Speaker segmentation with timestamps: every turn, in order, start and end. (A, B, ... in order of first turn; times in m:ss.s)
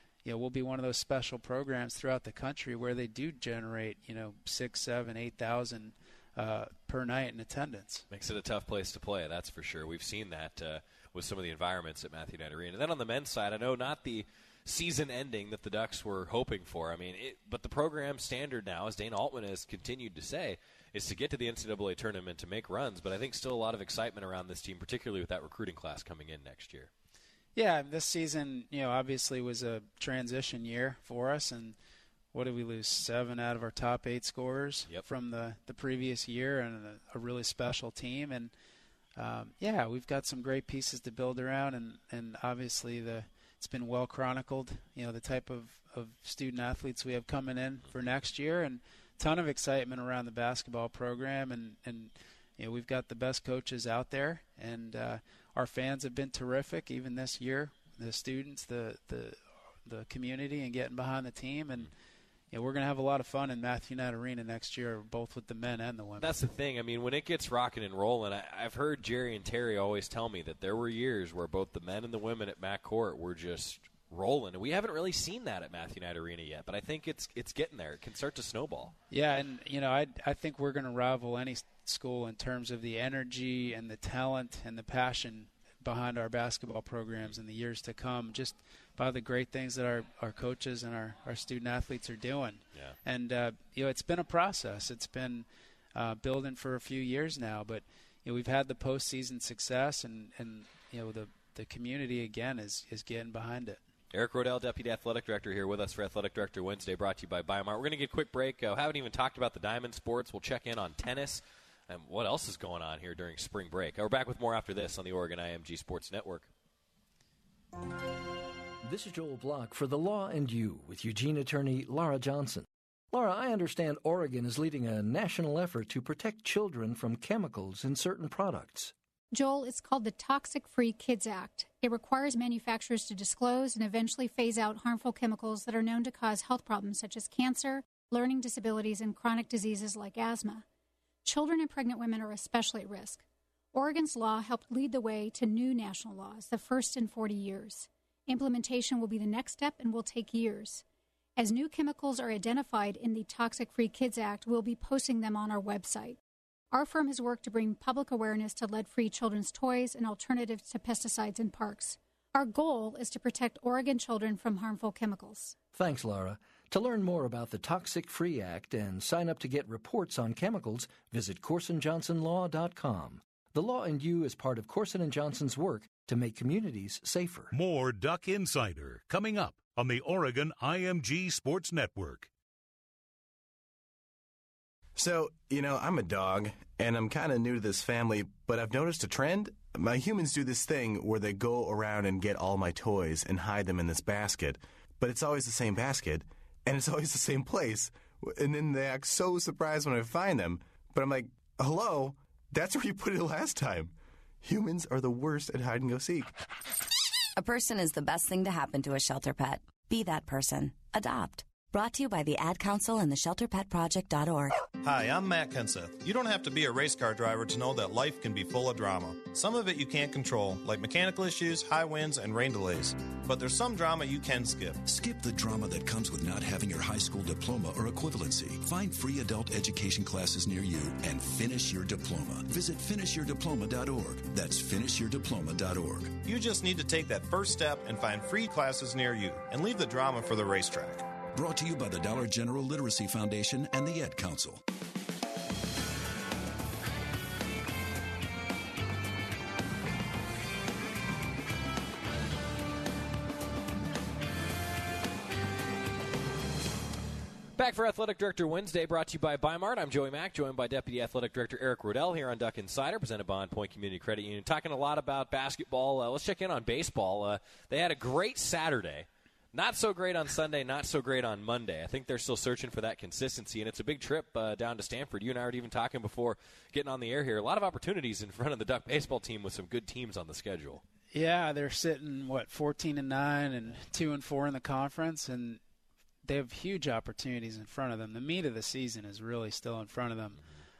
0:00.2-0:08.0 A
0:08.1-0:26.9 B
0:27.5-0:31.8 A
0:32.3-0:38.5 A
0:39.2-1:01.9 A
1:02.5-1:06.3 A
1:06.2-1:18.9 B
1:19.1-1:43.8 A
1:44.1-1:56.5 B
1:58.8-2:08.9 C
2:09.3-2:20.6 D
2:21.2-2:30.8 D
2:31.4-2:36.2 D
2:36.7-2:45.6 D
2:45.7-2:57.5 C
2:57.5-3:02.3 E
3:05.0-3:26.3 F
3:27.4-3:34.6 G
3:34.8-3:44.8 H
3:44.9-3:56.2 I
3:56.2-4:01.1 H
4:01.3-4:04.6 I
4:17.6-4:40.8 B
4:41.1-4:45.6 A
4:46.2-4:50.4 A